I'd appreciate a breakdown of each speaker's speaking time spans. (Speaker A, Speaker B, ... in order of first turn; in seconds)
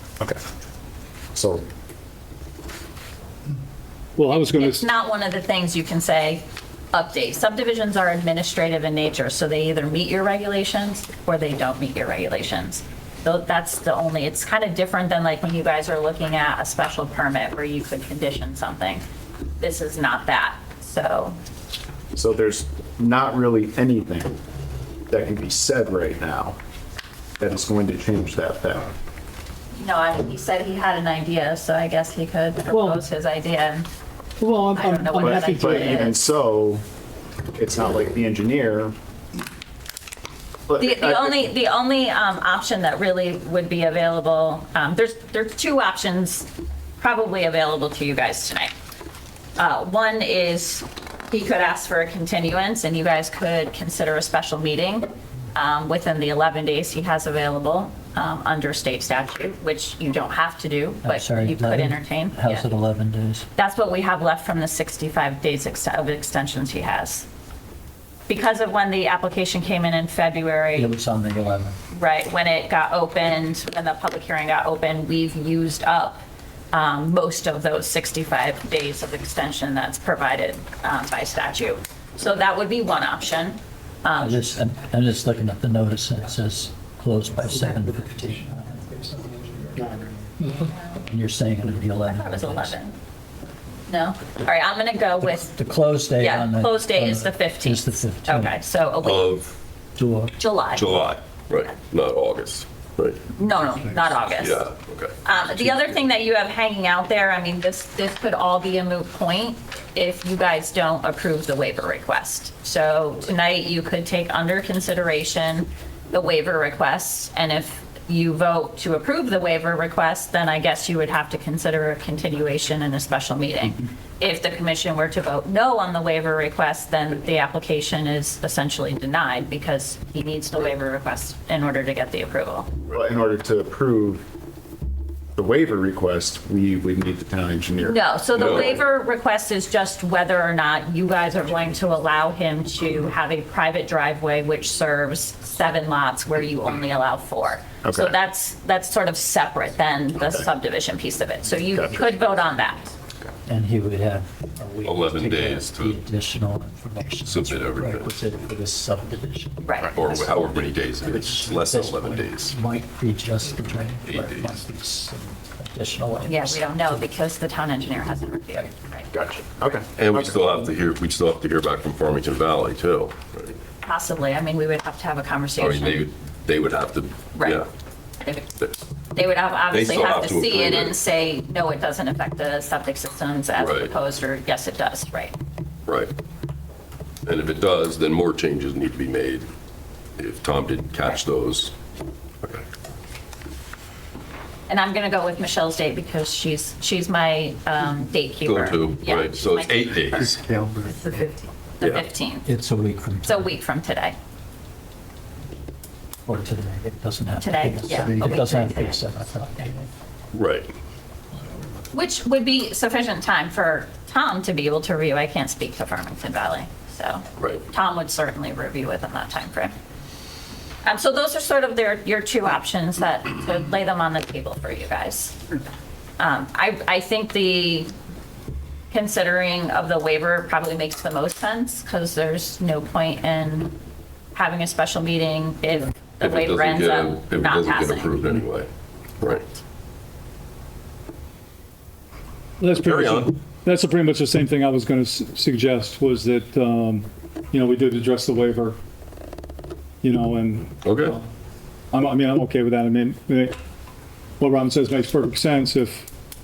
Speaker A: 1.3-1.6, 22.1-24.4, 25.1-26.6, 27.4-28.9, 35.2-36.8, 37.5-38.9, 40.7-41.4, 132.9-134.2, 135.3-138.8, 147.8-148.2, 150.2-150.5, 169.1-170.4
Speaker B: 4.2-4.8, 32.7-33.0, 34.4-36.0, 242.6-248.8, 250.0-251.2, 251.9-253.5, 254.4-256.1
Speaker C: 4.5-19.0, 19.6-21.4, 29.8-33.9, 34.7-36.2, 40.8-46.5, 47.0-48.7, 49.6-62.7, 63.6-67.3, 68.3-70.9, 71.9-76.2, 76.7-84.5, 90.6-91.0, 92.1-92.9, 93.9-95.5, 96.2-99.3, 100.4-100.9, 103.3-104.6, 105.2-132.7, 137.8-152.9, 159.6-160.0, 166.2-169.1, 173.8-176.0, 177.4-177.6, 178.2-178.5, 179.1-185.3, 194.7-200.1, 200.8-202.5, 203.2-204.1, 207.4-209.0, 211.9-219.7, 220.8-225.4, 226.2-227.9, 228.9-233.7, 234.3-238.1
Speaker D: 61.0-63.5, 70.7-71.8, 84.2-89.1, 90.4-92.8, 95.2-98.5, 100.0-100.3, 153.4-166.9, 200.4-200.8, 202.4-203.5, 206.2-209.9
Speaker E: 99.0-99.5, 100.7-103.2, 104.4-105.2, 138.3-138.6, 154.8-156.0, 157.2-158.1, 159.9-162.5, 164.0-164.6, 169.9-173.6, 175.6-177.7, 179.7-181.0, 183.5-183.9, 185.9-186.1, 187.2-189.5, 190.2-191.7, 198.4-200.4, 210.3-210.7, 236.2-238.7, 239.2-239.5, 242.8-243.4, 250.8-251.2